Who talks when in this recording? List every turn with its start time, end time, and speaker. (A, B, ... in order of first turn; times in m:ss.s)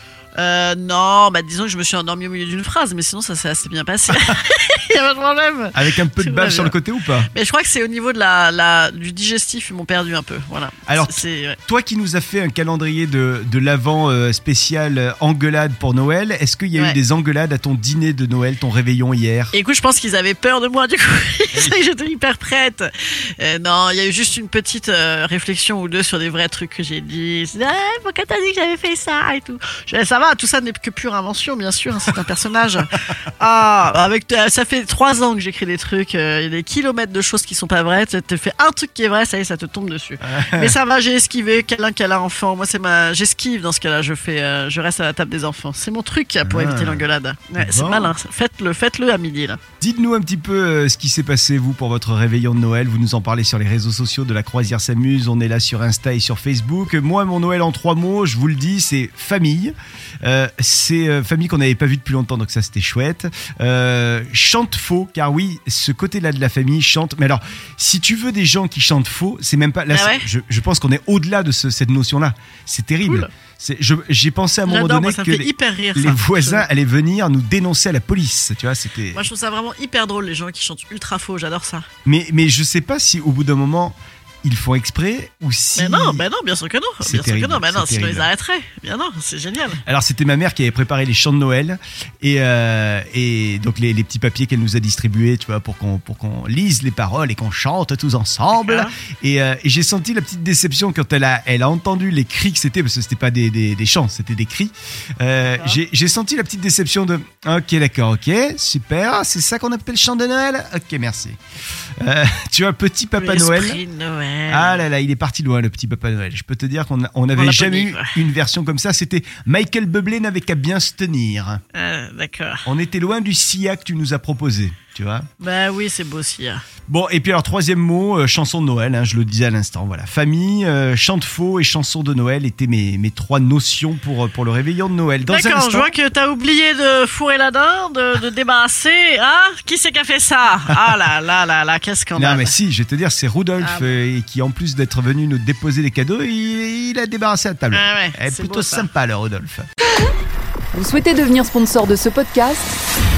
0:00.4-0:06.8 A
0:05.7-0:07.3 B
0:07.3-0:11.6 A
0:10.9-0:19.5 B
0:19.5-0:49.6 A
0:21.5-0:21.8 B
0:40.2-0:40.8 B
0:46.4-0:48.1 B
0:49.8-1:19.3 B
1:09.9-1:10.3 A
1:13.0-1:13.3 A
1:14.7-1:16.6 A
1:19.1-1:21.9 A
1:22.0-1:26.2 B
1:25.8-1:29.8 A
1:27.0-1:28.3 B
1:29.9-1:51.4 B
1:38.6-1:38.9 A
1:45.5-1:45.8 A
1:52.0-1:53.8 B
1:53.2-1:54.8 A
1:54.5-2:01.6 B
1:57.3-1:58.2 A
2:01.7-2:02.6 A
2:02.7-2:05.3 B
2:05.4-2:06.6 A
2:06.9-2:15.9 B
2:15.2-2:22.5 A
2:22.2-2:29.7 B
2:23.6-2:24.0 A
2:27.7-2:28.9 A
2:30.7-2:32.8 C